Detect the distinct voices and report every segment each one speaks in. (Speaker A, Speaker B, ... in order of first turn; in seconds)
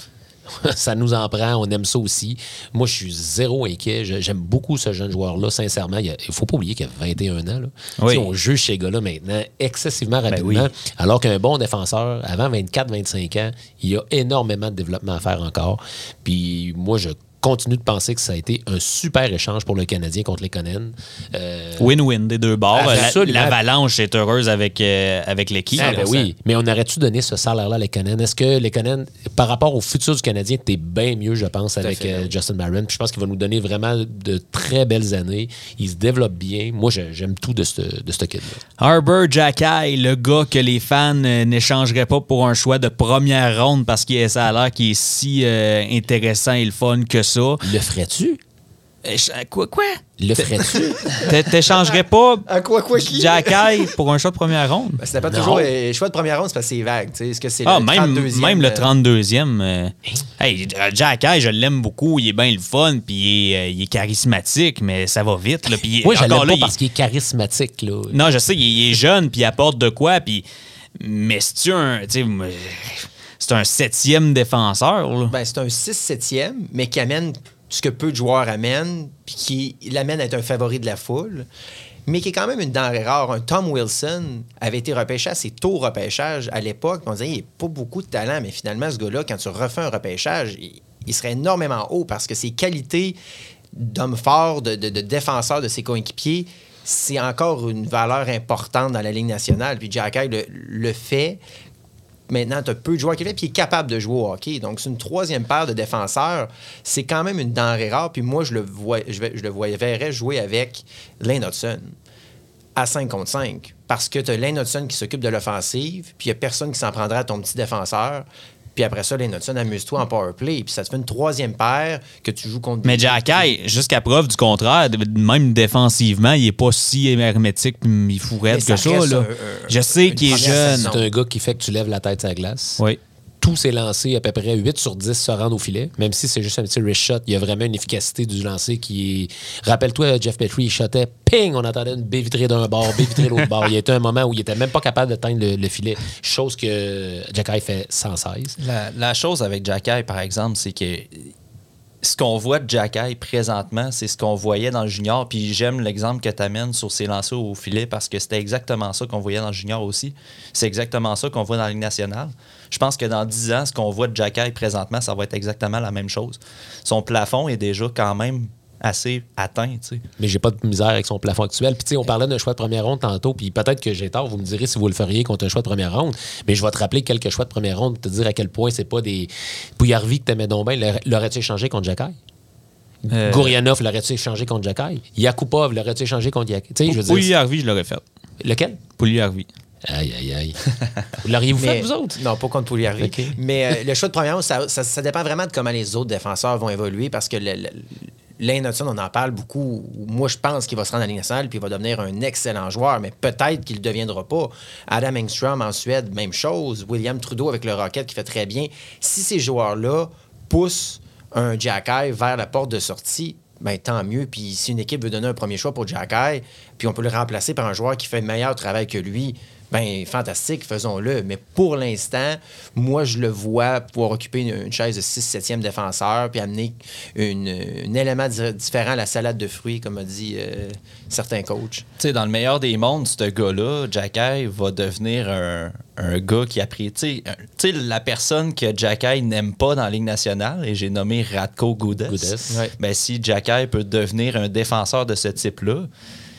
Speaker A: 0.5-21.9, 22.7-23.6, 25.8-38.6, 47.6-48.4, 50.2-51.3, 55.2-55.7, 66.0-68.2, 130.3-132.8, 133.4-148.6, 170.2-182.2, 183.0-187.3, 188.4-188.8, 189.8-190.6, 191.2-192.2, 193.0-193.4, 242.1-242.6
Speaker B: 8.0-8.3, 10.3-10.7, 21.8-26.1, 38.8-47.6, 49.0-55.0, 57.6-66.7, 68.1-70.4, 71.0-75.3, 122.8-130.9, 183.1-183.6, 186.8-188.0, 189.0-189.5
Speaker C: 31.8-32.3, 52.5-53.8, 55.0-58.9, 75.3-81.5, 82.1-93.2, 93.7-101.4, 102.3-111.9, 112.8-123.5, 128.5-131.1, 191.6-231.8, 242.5-242.7
Speaker D: 148.6-151.3, 152.0-170.0, 232.0-245.9